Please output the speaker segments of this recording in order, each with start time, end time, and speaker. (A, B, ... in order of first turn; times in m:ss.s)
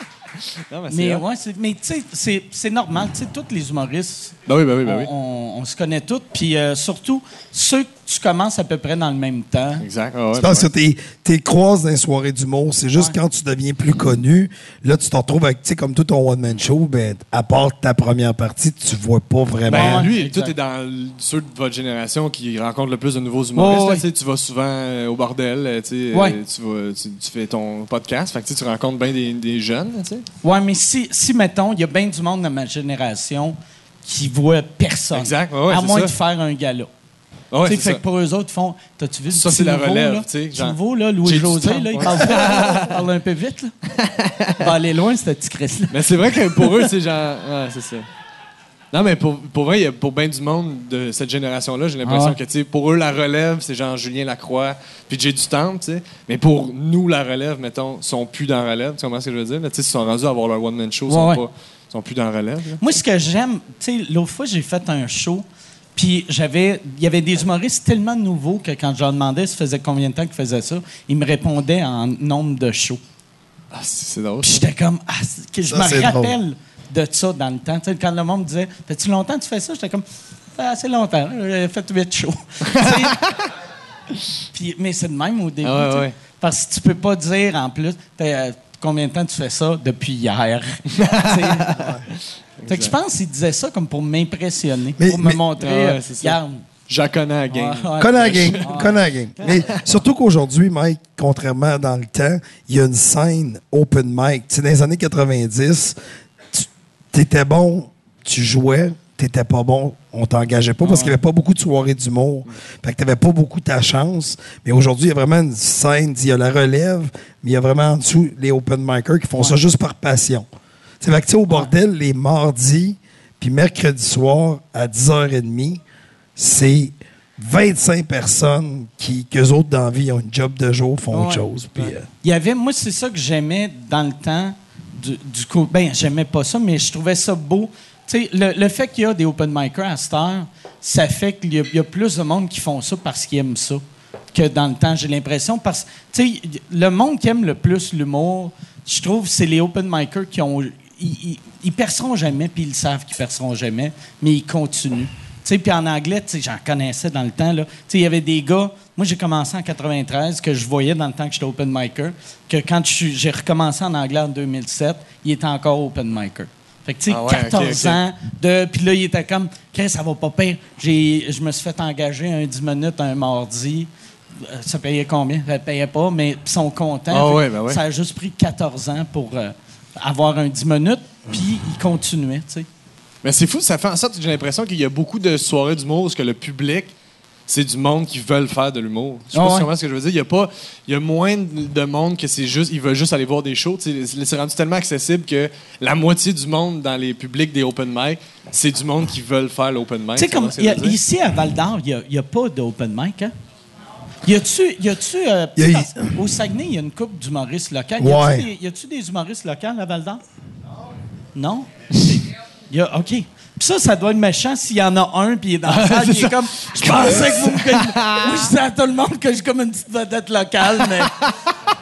0:00.7-0:01.2 A
0:00.9-0:09.8 B
0:04.5-0:05.1 A
0:09.8-0:10.7 A
0:10.4-0:20.1 C
0:19.7-0:20.5 B
0:19.7-0:30.2 A
0:23.6-0:24.0 B
0:26.1-0:26.4 B
0:30.4-0:36.9 B
0:35.1-0:36.1 A
0:37.5-0:38.0 A
0:37.7-0:43.7 B
0:39.3-0:43.0 A
0:44.0-0:44.6 A
0:44.6-0:46.9 B
0:45.9-0:48.1 A
0:48.9-1:02.8 A
0:52.0-0:52.4 B
1:01.1-1:01.4 B
1:02.8-1:13.0 B
1:13.7-1:14.7 A
1:14.4-1:20.0 B
1:15.7-1:16.4 C
1:20.6-1:23.2 B
1:22.7-1:23.4 A
1:24.5-1:31.9 B
1:25.6-1:26.2 A
1:30.9-1:32.0 A
1:32.6-1:33.0 A
1:32.7-1:36.6 B
1:35.0-1:35.4 C
1:35.6-1:38.8 A
1:37.5-1:39.0 B
1:38.0-1:46.0 C
1:39.4-1:39.8 A
1:46.5-2:00.5 C
1:50.8-1:51.2 B
2:01.0-2:05.8 C
2:06.4-2:12.1 C
2:11.1-3:02.7 B
2:47.1-2:48.0 A
2:57.1-2:57.8 A
3:03.2-3:06.9 A
3:07.5-3:21.0 A
3:09.3-3:09.7 B
3:20.2-3:23.3 B
3:24.2-3:30.2 B
3:25.6-3:26.1 C
3:28.0-3:28.5 C
3:31.4-3:41.2 B
3:35.7-3:38.5 A